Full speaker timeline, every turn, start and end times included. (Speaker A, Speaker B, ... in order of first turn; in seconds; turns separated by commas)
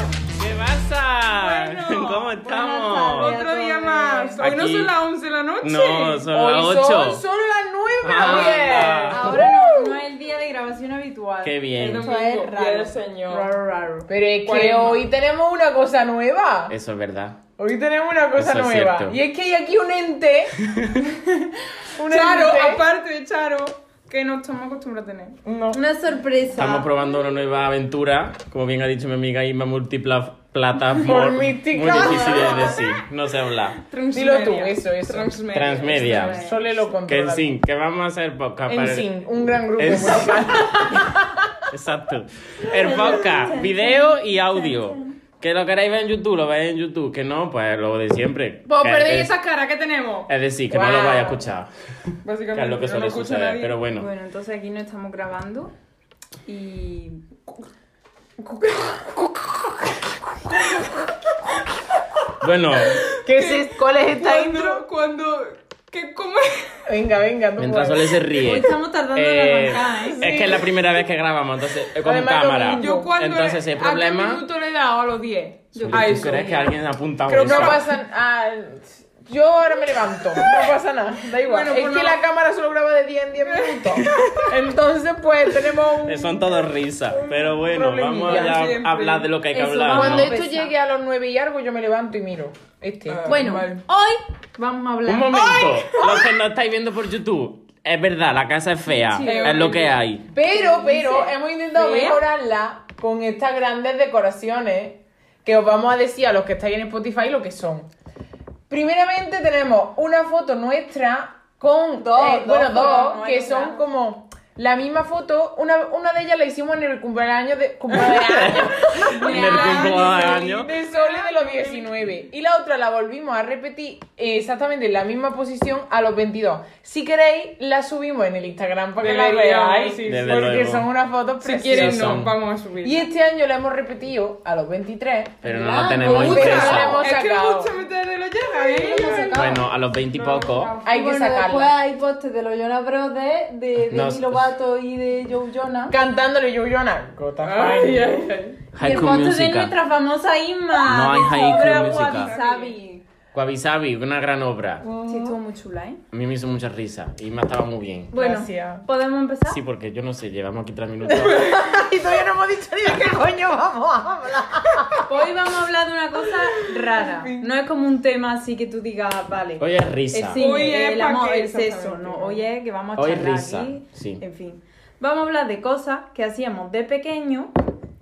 Speaker A: 0.3-3.4, Speaker B: 1.4-2.4, Speaker C: 2.4-4.5, Speaker B: 3.1-6.3, Speaker A: 4.4-5.0, Speaker A: 5.6-7.2, Speaker D: 6.3-10.0, Speaker A: 8.0-9.5, Speaker B: 8.2-9.0, Speaker C: 9.1-14.1, Speaker A: 11.4-12.1, Speaker B: 11.8-13.5, Speaker D: 14.1-16.8, Speaker B: 14.4-15.1, Speaker A: 16.7-17.4, Speaker D: 17.6-20.6, Speaker A: 18.4-19.2, Speaker A: 20.7-21.0, Speaker D: 21.9-22.9, Speaker B: 22.1-25.4, Speaker D: 25.4-25.8, Speaker C: 25.7-26.9, Speaker A: 26.5-33.8, Speaker D: 31.0-32.9, Speaker C: 32.2-32.8, Speaker B: 33.9-36.2, Speaker D: 34.1-35.4, Speaker A: 35.5-39.1, Speaker C: 35.9-36.6, Speaker D: 36.0-37.5, Speaker D: 38.7-41.6, Speaker A: 39.8-41.0, Speaker A: 41.7-49.3, Speaker C: 42.7-45.1, Speaker B: 48.7-50.3, Speaker A: 50.3-51.7, Speaker D: 50.7-51.5, Speaker B: 52.2-53.8, Speaker A: 52.5-54.1, Speaker C: 54.0-55.7, Speaker C: 56.5-57.2, Speaker D: 58.4-61.0, Speaker A: 62.4-63.1, Speaker B: 62.9-66.8, Speaker D: 63.2-64.8, Speaker D: 66.9-68.2, Speaker A: 67.6-74.4, Speaker C: 68.3-70.3, Speaker D: 70.1-70.8, Speaker D: 72.0-73.1, Speaker B: 72.7-76.7, Speaker C: 75.7-76.5, Speaker A: 75.8-77.9, Speaker D: 77.3-86.4, Speaker B: 77.4-77.8, Speaker B: 81.4-82.2, Speaker B: 83.4-84.5, Speaker A: 86.0-90.4, Speaker D: 87.1-88.7, Speaker B: 87.6-89.3, Speaker C: 89.5-90.8, Speaker D: 89.9-93.8, Speaker B: 93.1-93.8, Speaker C: 93.3-96.2, Speaker A: 95.0-100.2, Speaker D: 95.5-96.3, Speaker B: 99.1-100.0, Speaker D: 99.2-107.9, Speaker C: 100.4-102.2, Speaker D: 108.7-137.8, Speaker C: 112.0-113.8, Speaker A: 117.9-120.7, Speaker C: 119.1-120.7, Speaker B: 119.4-120.3, Speaker B: 121.5-121.8, Speaker B: 129.0-130.3, Speaker A: 130.0-130.9, Speaker B: 131.4-133.1, Speaker A: 131.7-132.3, Speaker A: 135.4-137.1, Speaker C: 135.5-136.9, Speaker B: 136.1-140.8, Speaker C: 138.5-139.7, Speaker D: 138.9-139.3, Speaker A: 139.3-140.8, Speaker D: 140.8-141.8, Speaker C: 140.8-146.0, Speaker A: 143.9-144.6, Speaker D: 145.9-148.2, Speaker B: 147.4-148.6, Speaker A: 148.7-149.8, Speaker C: 148.8-153.0, Speaker A: 150.8-152.3, Speaker B: 151.6-152.8, Speaker A: 153.3-154.9, Speaker D: 154.8-155.4, Speaker C: 155.1-156.0, Speaker A: 156.1-158.1, Speaker C: 158.1-159.6, Speaker D: 158.1-158.9, Speaker A: 159.5-161.6, Speaker D: 161.1-165.2, Speaker B: 161.2-161.6, Speaker C: 165.1-177.5, Speaker D: 166.2-167.5, Speaker A: 169.6-170.7, Speaker B: 170.4-172.4, Speaker A: 173.0-174.2